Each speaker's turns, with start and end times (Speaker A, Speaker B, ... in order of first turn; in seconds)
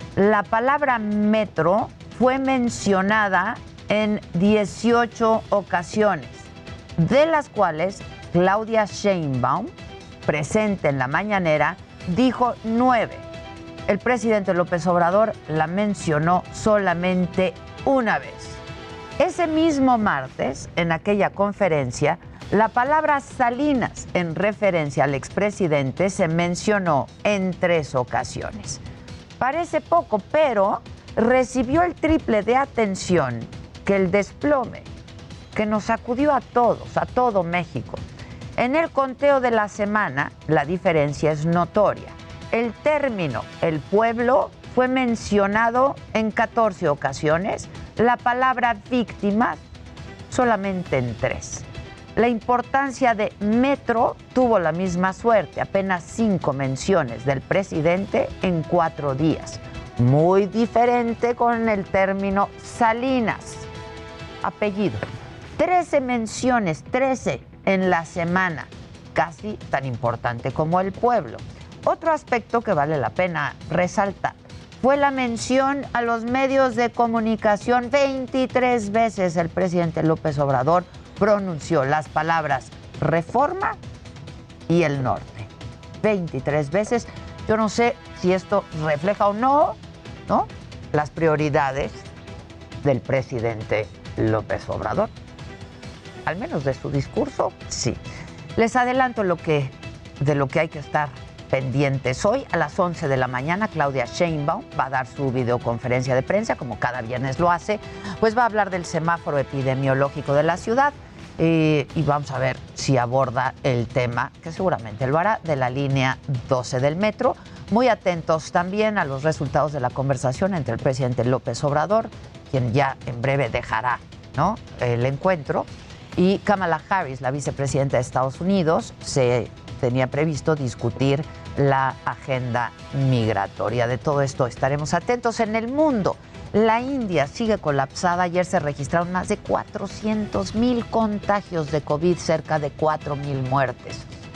Speaker A: 0.1-9.7, 10.2-13.2, 13.9-18.6, 19.2-28.8, 29.4-34.9, 35.5-38.0, 38.5-49.6, 50.3-63.7, 64.4-65.0, 65.6-83.8, 84.7-85.5, 86.0-92.0, 92.8-95.1, 96.2-98.0, 98.5-144.1